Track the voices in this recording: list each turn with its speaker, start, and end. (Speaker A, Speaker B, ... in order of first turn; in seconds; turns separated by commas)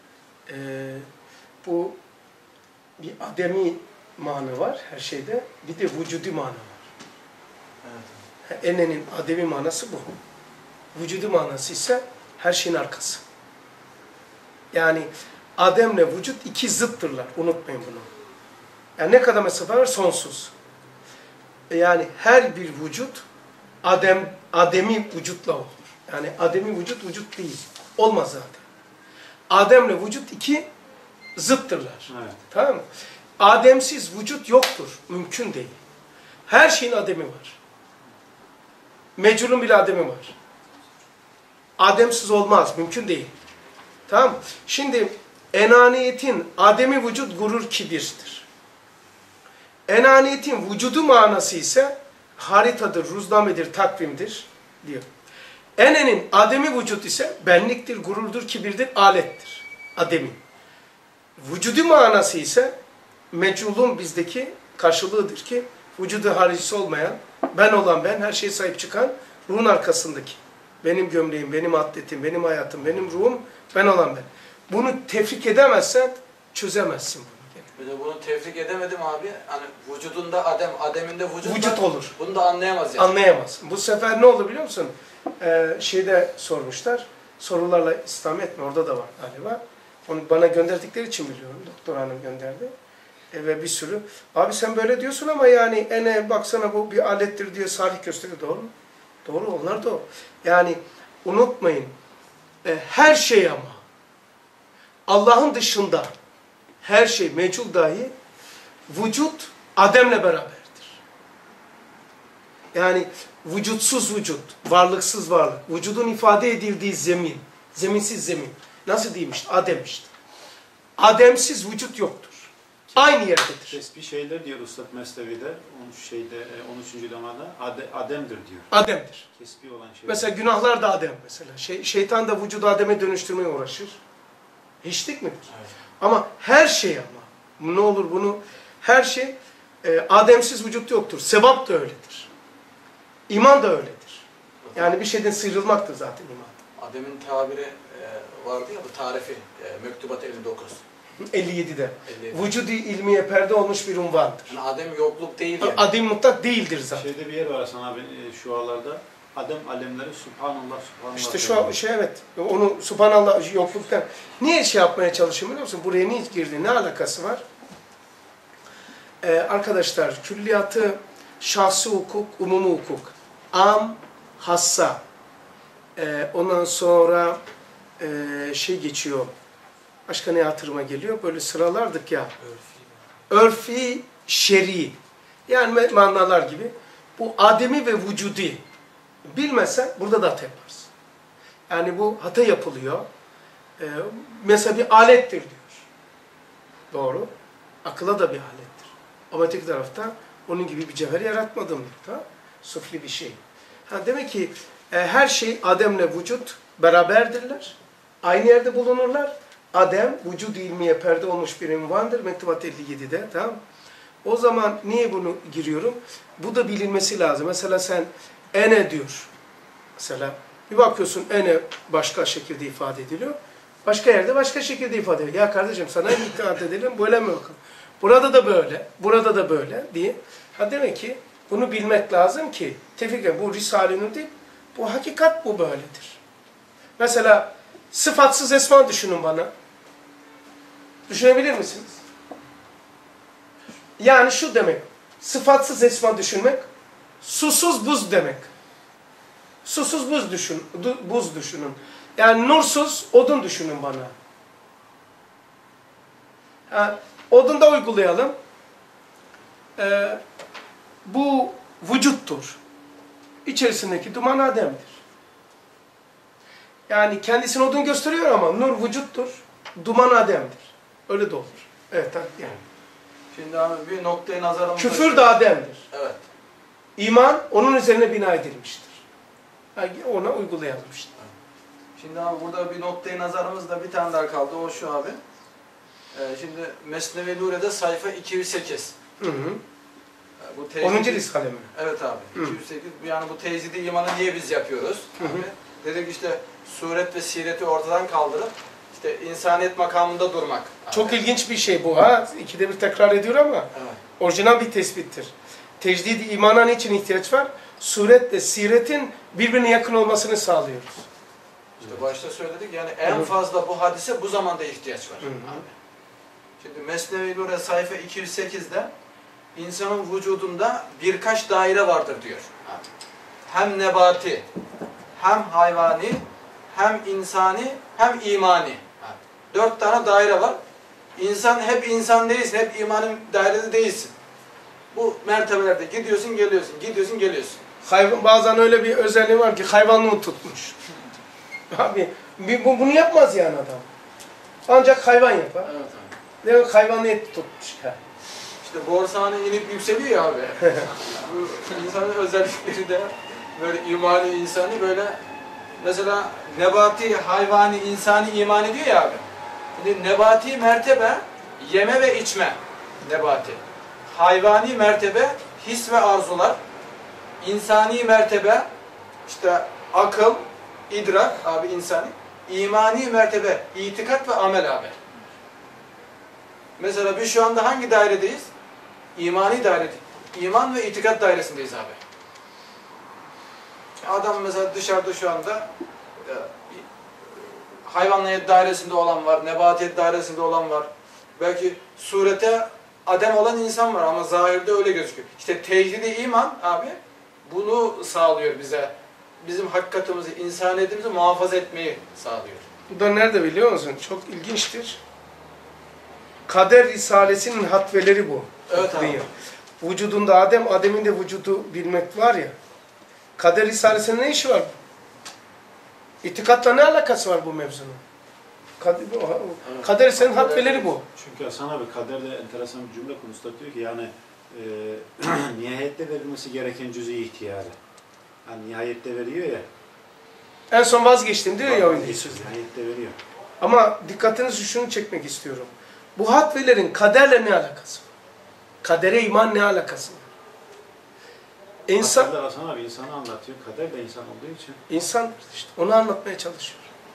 Speaker A: 0.5-1.1, Speaker A: 1.6-2.0, Speaker A: 3.0-6.9, Speaker B: 7.8-8.2, Speaker A: 8.4-10.1, Speaker A: 10.9-13.2, Speaker A: 14.7-18.1, Speaker A: 19.0-20.5, Speaker A: 21.7-23.2, Speaker A: 23.8-28.6, Speaker A: 29.5-30.7, Speaker A: 31.4-32.9, Speaker C: 32.1-32.4, Speaker A: 33.4-35.8, Speaker A: 36.5-37.6, Speaker A: 39.2-40.4, Speaker A: 41.8-43.3, Speaker A: 44.1-48.5, Speaker A: 49.9-55.1, Speaker A: 55.8-60.4, Speaker A: 61.4-62.7, Speaker A: 63.3-77.7, Speaker B: 77.8-83.2, Speaker A: 81.4-82.1, Speaker A: 83.0-92.7, Speaker A: 93.3-98.7, Speaker A: 99.2-102.0, Speaker A: 102.6-103.8, Speaker A: 105.1-106.1, Speaker A: 106.8-108.1, Speaker A: 108.9-111.0, Speaker A: 112.7-120.1, Speaker A: 121.0-123.8, Speaker C: 122.9-128.7, Speaker A: 128.7-129.3, Speaker C: 129.4-130.3, Speaker A: 130.1-134.0, Speaker A: 134.8-135.5, Speaker A: 136.0-142.3, Speaker A: 143.3-144.2, Speaker A: 144.8-146.6, Speaker B: 146.8-150.8, Speaker A: 151.2-154.6, Speaker B: 152.1-152.5, Speaker B: 154.5-155.9, Speaker A: 155.6-157.1, Speaker C: 156.9-161.8, Speaker A: 161.2-167.4, Speaker A: 169.2-175.0, Speaker A: 176.0-177.4, Speaker A: 178.0-179.3, Speaker A: 180.1-182.3, Speaker A: 183.3-188.6, Speaker A: 189.2-190.9, Speaker A: 191.7-193.1, Speaker A: 193.8-195.9, Speaker A: 196.9-197.3, Speaker A: 197.8-213.6, Speaker A: 214.2-219.3, Speaker A: 220.0-236.2, Speaker A: 237.0-239.5, Speaker A: 241.1-242.0, Speaker A: 244.0-246.7, Speaker A: 247.2-248.5, Speaker A: 249.6-254.1, Speaker A: 256.7-258.3, Speaker A: 259.8-260.2, Speaker A: 261.1-262.6, Speaker A: 263.4-265.0, Speaker A: 266.9-272.6, Speaker B: 273.3-275.3, Speaker A: 274.8-275.8, Speaker B: 275.9-276.2, Speaker A: 277.0-279.0, Speaker A: 279.8-281.1, Speaker B: 282.0-285.2, Speaker B: 286.1-288.9, Speaker A: 289.2-289.6, Speaker B: 290.4-301.1, Speaker A: 290.8-291.7, Speaker A: 295.2-295.5, Speaker A: 300.9-311.1, Speaker B: 303.7-304.0, Speaker B: 311.8-315.7, Speaker A: 315.2-315.6, Speaker B: 316.6-318.9, Speaker B: 319.6-322.9, Speaker B: 323.5-324.5, Speaker B: 325.2-330.6, Speaker B: 331.2-334.1, Speaker B: 334.9-337.6, Speaker A: 337.8-340.8, Speaker A: 341.7-343.9, Speaker A: 344.7-345.7, Speaker B: 345.6-346.1, Speaker A: 346.4-348.0, Speaker B: 348.6-355.2, Speaker B: 355.8-366.6, Speaker B: 367.4-368.7, Speaker B: 369.3-374.9, Speaker B: 376.8-378.5, Speaker B: 379.2-382.0, Speaker B: 384.0-385.7, Speaker B: 386.2-386.9, Speaker B: 387.4-402.7, Speaker A: 402.9-405.0, Speaker A: 406.5-409.3, Speaker B: 408.7-409.3, Speaker A: 409.8-412.6, Speaker A: 413.4-414.7, Speaker A: 416.2-418.0, Speaker A: 418.8-421.1, Speaker B: 419.6-420.9, Speaker C: 421.2-427.8, Speaker C: 428.4-429.6, Speaker A: 430.7-432.5, Speaker C: 431.6-433.2, Speaker A: 433.6-438.1, Speaker A: 438.8-440.3, Speaker A: 441.9-442.3, Speaker C: 442.0-444.8, Speaker A: 444.9-446.9